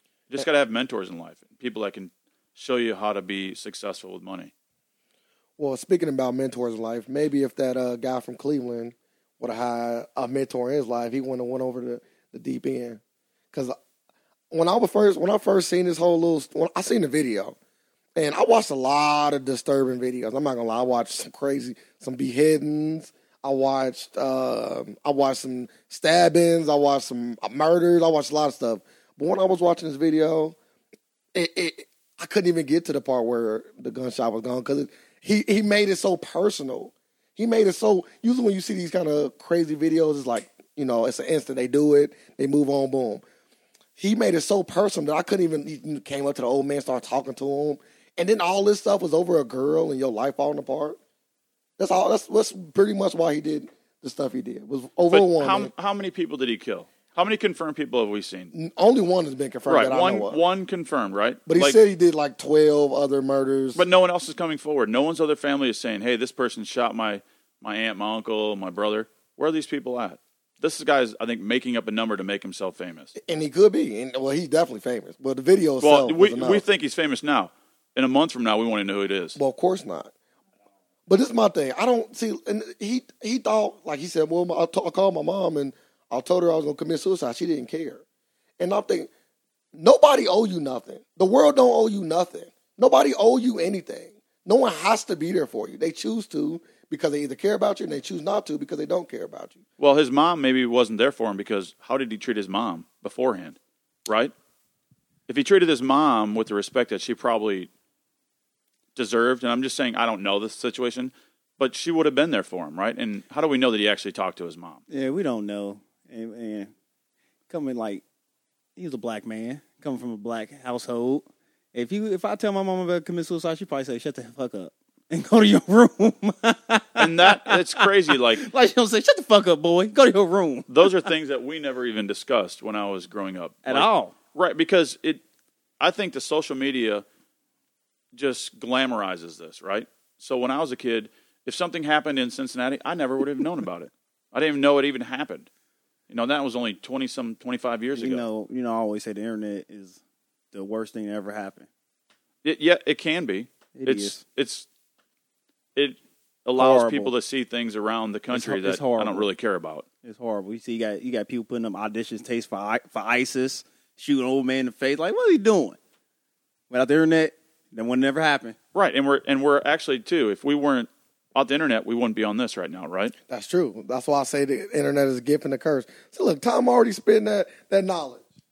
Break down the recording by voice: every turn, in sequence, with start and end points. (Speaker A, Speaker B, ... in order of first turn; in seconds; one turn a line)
Speaker A: 0.3-4.5
Speaker B: 5.6-13.0
Speaker B: 14.5-17.6
Speaker B: 18.1-30.6
Speaker B: 31.3-43.2
Speaker B: 44.0-51.0
Speaker B: 51.8-55.7
Speaker A: 55.1-58.5
Speaker B: 58.5-60.4
Speaker A: 59.7-61.8
Speaker B: 61.5-63.8
Speaker A: 63.7-73.1
Speaker B: 73.2-76.6
Speaker A: 75.8-79.4
Speaker B: 79.3-80.1
Speaker B: 81.1-88.0
Speaker B: 88.6-89.1
Speaker B: 89.7-99.6
Speaker A: 99.8-104.3
Speaker A: 105.3-107.7
Speaker A: 109.0-114.8
Speaker C: 114.9-116.7
Speaker C: 117.5-118.0
Speaker C: 118.8-131.1
Speaker A: 127.0-128.5
Speaker A: 130.7-135.2
Speaker C: 133.6-134.1
Speaker A: 135.8-137.0
Speaker A: 138.1-145.5
Speaker A: 146.1-148.2
Speaker C: 147.9-150.0
Speaker C: 150.5-151.7
Speaker A: 152.4-154.7
Speaker C: 153.7-154.2
Speaker A: 155.8-159.8
Speaker C: 156.6-157.1
Speaker C: 158.3-159.3
Speaker C: 160.0-165.8
Speaker C: 166.7-168.6
Speaker A: 168.7-173.1
Speaker B: 173.3-178.2